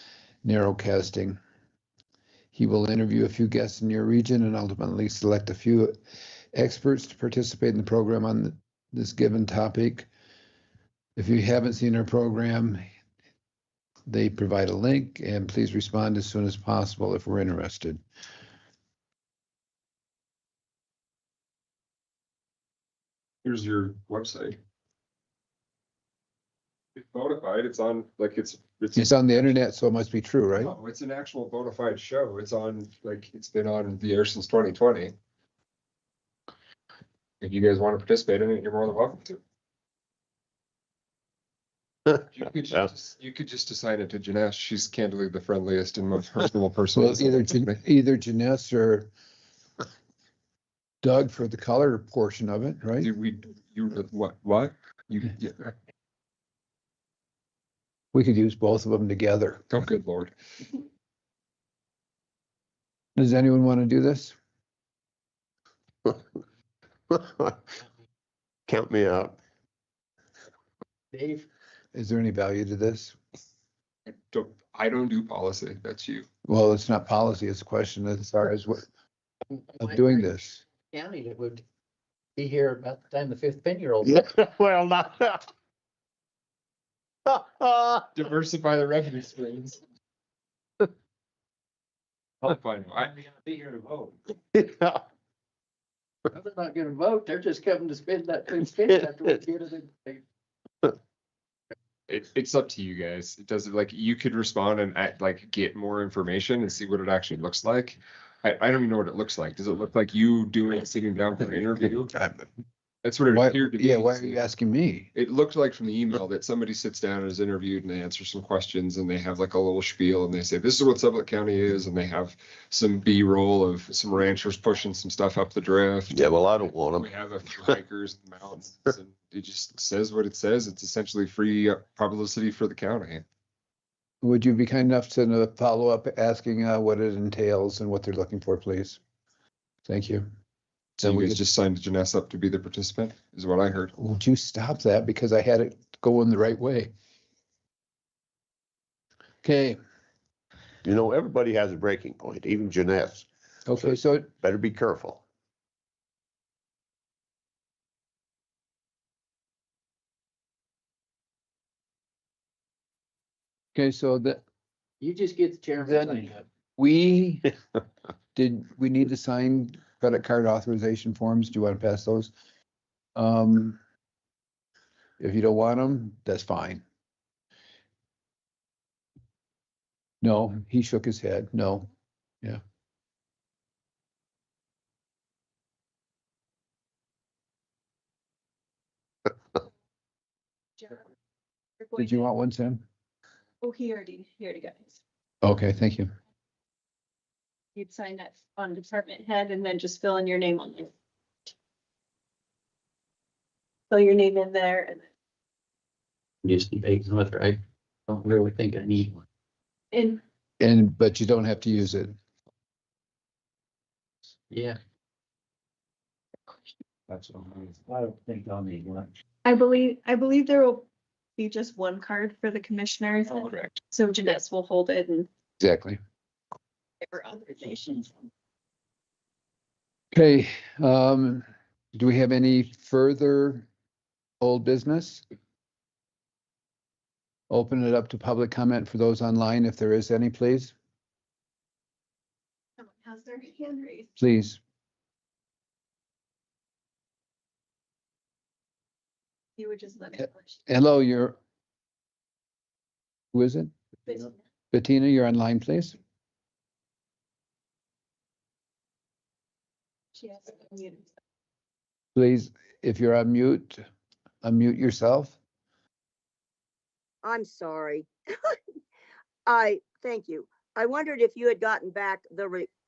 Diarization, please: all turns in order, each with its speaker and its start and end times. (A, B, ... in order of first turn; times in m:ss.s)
0:00.4-0:01.4 A
0:02.5-0:06.0 A
0:06.5-0:10.1 A
0:11.2-0:12.8 A
0:14.1-0:18.0 A
0:23.4-0:24.6 B
0:27.0-0:29.5 B
0:29.0-0:30.8 A
0:30.5-0:35.2 B
0:37.4-0:39.4 B
0:42.3-0:47.8 B
0:47.0-0:49.1 A
0:51.0-0:53.1 A
0:53.0-0:55.7 B
0:58.1-0:59.6 A
0:59.7-1:00.3 B
1:03.2-1:04.4 A
1:07.1-1:07.6 C
1:08.7-1:09.4 C
1:11.1-1:11.4 D
1:11.9-1:13.2 A
1:14.1-1:16.2 B
1:16.5-1:18.9 A
1:19.8-1:20.6 A
1:19.8-1:20.3 D
1:20.9-1:21.6 D
1:22.4-1:24.2 D
1:24.0-1:25.4 C
1:27.3-1:28.1 C
1:28.1-1:29.8 B
1:32.4-1:33.5 B
1:34.5-1:35.0 C
1:36.3-1:40.2 D
1:42.1-1:52.1 B
1:53.0-1:54.4 B
1:53.3-1:55.1 A
1:55.1-2:06.3 B
2:06.1-2:07.1 C
2:06.9-2:13.2 B
2:14.2-2:19.0 A
2:19.9-2:20.3 A
2:21.0-2:21.4 A
2:21.0-2:23.9 B
2:24.0-2:26.9 A
2:29.4-2:29.8 A
2:30.8-2:33.3 C
2:33.7-2:34.3 A
2:33.8-2:35.2 C
2:43.8-2:44.4 A
2:45.0-2:46.4 D
2:45.8-2:47.5 A
2:48.3-2:52.3 A
2:53.2-2:53.8 A
2:55.2-2:56.8 A
3:00.2-3:01.9 A
3:11.8-3:12.3 E
3:12.0-3:12.8 A
3:13.6-3:15.0 E
3:15.4-3:16.1 A
3:17.8-3:20.9 E
3:23.9-3:25.0 E
3:26.4-3:29.2 D
3:29.9-3:30.2 E
3:30.6-3:32.2 A
3:34.5-3:34.8 D
3:37.8-3:39.0 D
3:39.4-3:45.3 E
3:45.6-3:46.0 A
3:47.1-3:48.1 E
3:50.1-3:53.7 A
3:54.4-3:55.2 A
3:57.5-4:00.7 A
4:02.9-4:04.1 E
4:04.2-4:04.6 A
4:09.6-4:10.5 E
4:10.7-4:11.4 A
4:13.3-4:13.7 A
4:14.7-4:16.0 A
4:20.2-4:21.0 E
4:22.1-4:23.8 A
4:24.4-4:25.4 A
4:27.2-4:28.6 F
4:29.4-4:32.7 F